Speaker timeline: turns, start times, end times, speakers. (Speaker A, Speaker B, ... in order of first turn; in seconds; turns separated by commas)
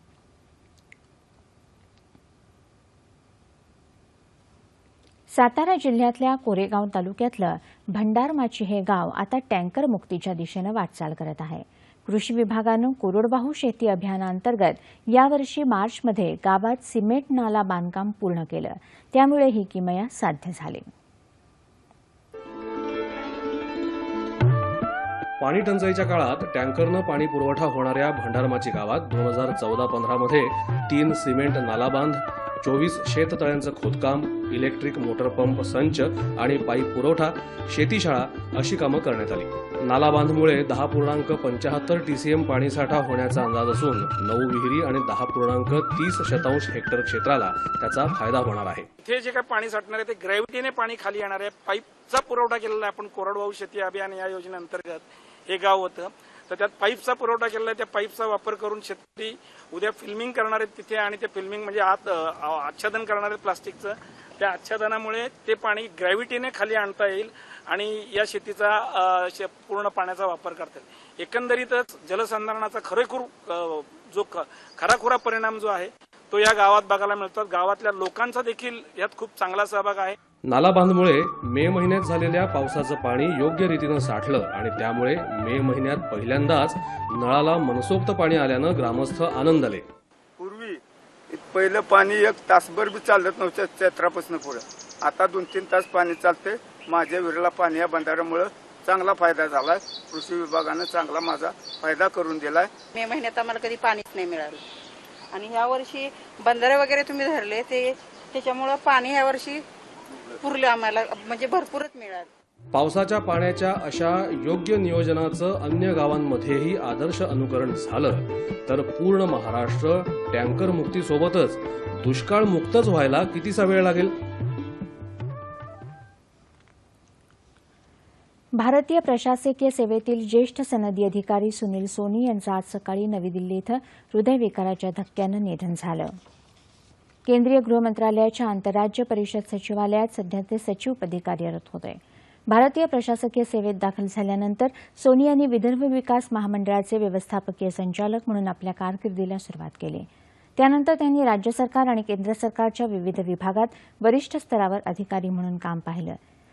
Speaker A: 5.3-20.9, Speaker B: 25.4-48.9, Speaker C: 49.0-80.2, Speaker B: 80.5-89.9, Speaker D: 90.4-90.8, Speaker D: 91.3-102.7, Speaker E: 102.9-104.6, Speaker E: 105.3-109.6, Speaker E: 110.4-112.3, Speaker B: 112.7-124.1, Speaker A: 128.6-136.2, Speaker A: 137.3-156.2